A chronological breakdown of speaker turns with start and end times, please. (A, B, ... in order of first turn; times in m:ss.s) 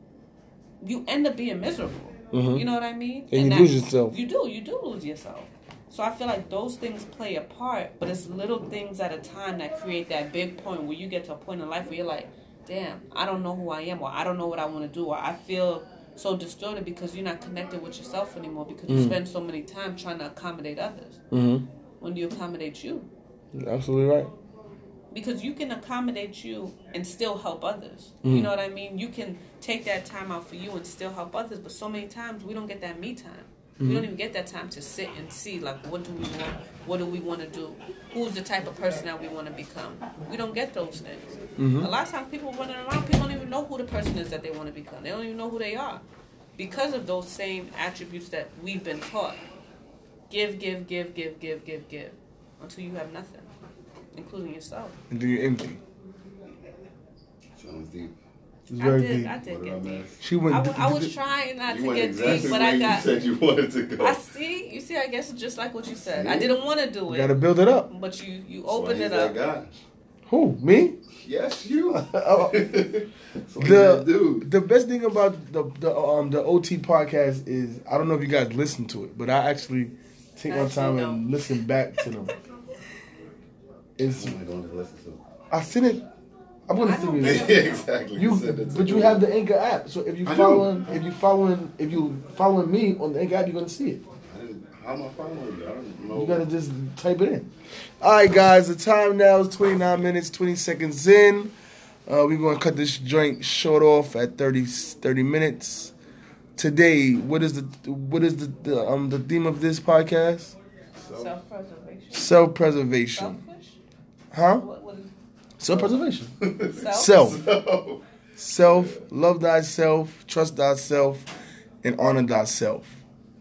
0:00.8-0:21.2 A
0:02.3-0:02.6 B
0:03.3-0:04.1 B
0:18.9-0:19.2 B
0:21.3-0:21.6 B
0:22.0-0:23.1 A
0:23.5-0:24.3 B
0:25.1-0:46.0 A
0:28.2-0:28.5 B
0:33.8-0:34.1 B
0:41.6-0:41.9 B
0:46.6-0:49.4 A
0:50.3-0:53.5 A
0:54.1-0:55.0 A
0:55.1-0:55.8 B
0:57.6-0:58.1 C
0:58.7-0:59.3 B
0:58.8-1:03.2 A
0:59.4-1:00.2 C
1:00.2-1:01.1 B
1:01.7-1:04.2 C
1:04.0-1:09.4 A
1:06.0-1:06.6 C
1:07.1-1:07.9 B
1:08.7-1:09.8 C
1:10.3-1:11.0 B
1:11.2-1:14.5 C
1:12.1-1:12.6 B
1:13.6-1:22.3 B
1:20.5-1:21.3 A
1:24.0-1:24.4 B
1:24.0-1:25.2 C
1:25.5-1:26.0 B
1:26.7-1:27.6 B
1:26.8-1:27.9 A
1:27.2-1:29.3 C
1:28.2-1:34.0 B
1:30.2-1:30.9 C
1:34.3-1:36.5 C
1:36.1-1:41.5 B
1:42.1-1:45.9 B
1:46.6-1:50.6 B
1:51.0-1:51.4 C
1:51.1-1:52.4 A
1:52.1-1:53.4 B
1:53.1-1:53.8 A
1:54.3-1:54.6 B
1:54.6-1:55.1 A
1:55.6-1:56.3 B
1:55.7-1:58.0 C
1:56.7-1:57.4 A
1:56.9-1:57.4 B
1:58.4-2:01.3 B
1:58.6-1:59.0 C
2:01.8-2:03.0 B